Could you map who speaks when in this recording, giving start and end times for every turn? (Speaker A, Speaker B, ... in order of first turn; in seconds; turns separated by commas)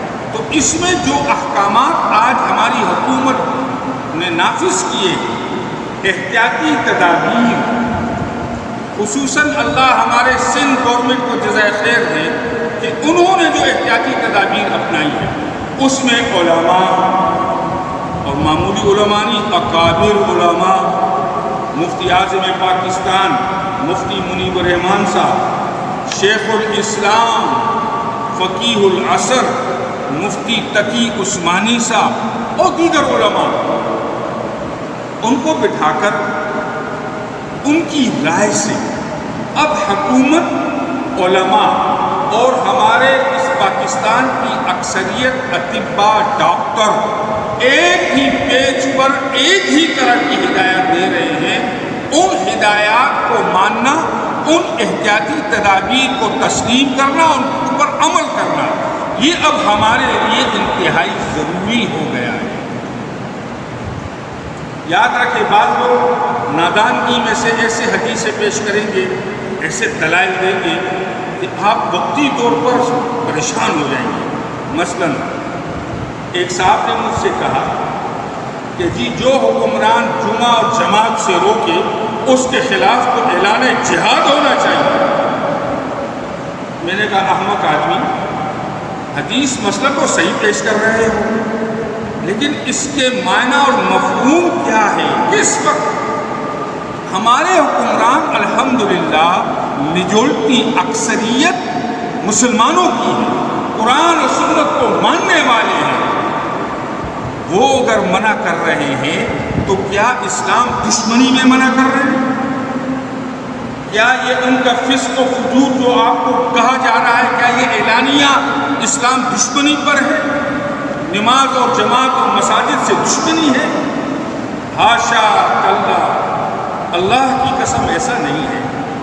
Speaker A: 0.3-5.3, Speaker A: 6.0-7.7, Speaker A: 9.0-17.1, Speaker A: 18.2-21.0, Speaker A: 21.7-25.4, Speaker A: 26.1-27.8, Speaker A: 28.3-29.6, Speaker A: 30.1-33.6, Speaker A: 35.2-36.3, Speaker A: 37.6-38.8, Speaker A: 39.5-40.6, Speaker A: 41.1-47.1, Speaker A: 47.6-62.6, Speaker A: 64.8-75.3, Speaker A: 76.3-77.7, Speaker A: 78.8-85.1, Speaker A: 86.8-88.1, Speaker A: 89.1-91.4, Speaker A: 92.2-96.0, Speaker A: 97.1-101.6, Speaker A: 102.2-106.1, Speaker A: 107.5-112.2, Speaker A: 113.9-120.3, Speaker A: 121.0-123.7, Speaker A: 124.7-126.3, Speaker A: 126.9-128.7